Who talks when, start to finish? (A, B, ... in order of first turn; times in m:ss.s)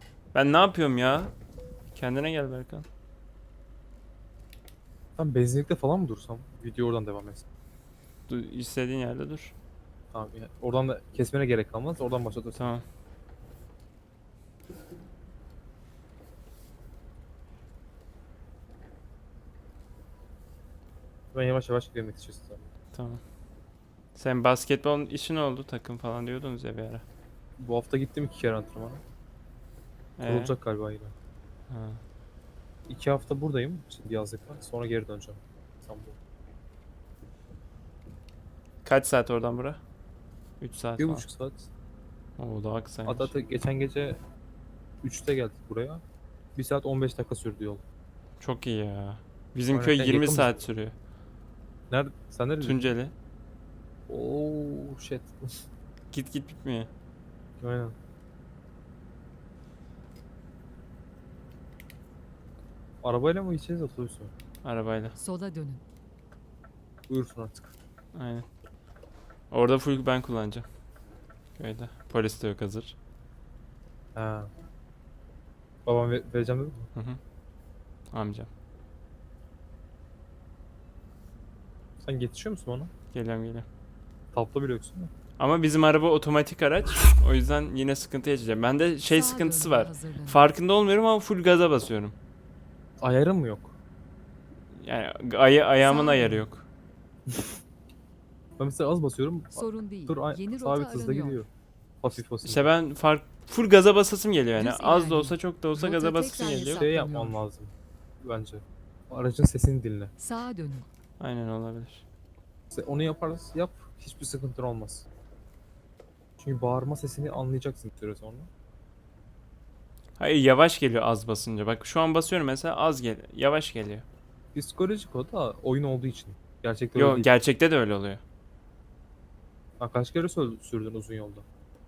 0:00.3-0:01.3 A
0:01.9-0:02.8 A
0:05.2-0:07.5 B
0:08.3-0:09.5 A
0:10.1-0:12.7 B
0:12.6-0:12.8 A
0:21.3-0:22.7 B
0:22.9-0:23.2 A
0:24.2-0:27.0 A
0:27.6-0:29.0 B
0:30.2-0:30.5 A
0:30.2-0:31.1 B
0:31.7-0:32.0 A
0:32.9-0:36.2 B
0:38.8-0:39.8 A
0:40.6-0:41.2 A
0:41.0-0:41.7 B
0:42.4-0:43.3 A
0:43.0-0:44.2 B
0:45.0-0:46.0 B
0:46.6-0:47.8 B
0:48.4-0:50.9 A
0:49.7-0:50.6 B
0:51.9-0:52.9 B
0:52.6-0:53.1 A
0:54.1-0:55.4 B
0:56.1-0:56.9 A
0:57.6-0:57.9 B
1:03.0-1:04.3 B
1:04.6-1:05.2 A
1:05.2-1:05.8 C
1:07.1-1:07.7 B
1:08.1-1:08.4 A
1:09.5-1:10.6 A
1:11.6-1:13.0 A
1:14.1-1:14.5 B
1:15.8-1:16.9 B
1:18.1-1:18.5 A
1:22.0-1:22.9 B
1:23.1-1:23.6 A
1:24.3-1:25.1 B
1:25.4-1:32.1 A
1:29.0-1:30.5 C
1:33.0-1:33.7 B
1:34.8-1:36.6 A
1:35.8-1:36.4 C
1:37.3-1:37.6 B
1:38.6-1:41.5 B
1:39.5-1:41.4 C
1:42.0-1:42.7 B
1:42.4-1:46.9 A
1:44.6-1:47.4 C
1:46.6-1:50.1 B
1:50.2-1:50.9 C
1:51.2-1:52.0 A
1:52.7-1:55.1 B
1:56.4-1:58.5 B
2:00.2-2:04.0 A
2:04.5-2:07.3 B
2:07.0-2:08.2 A
2:09.8-2:11.4 B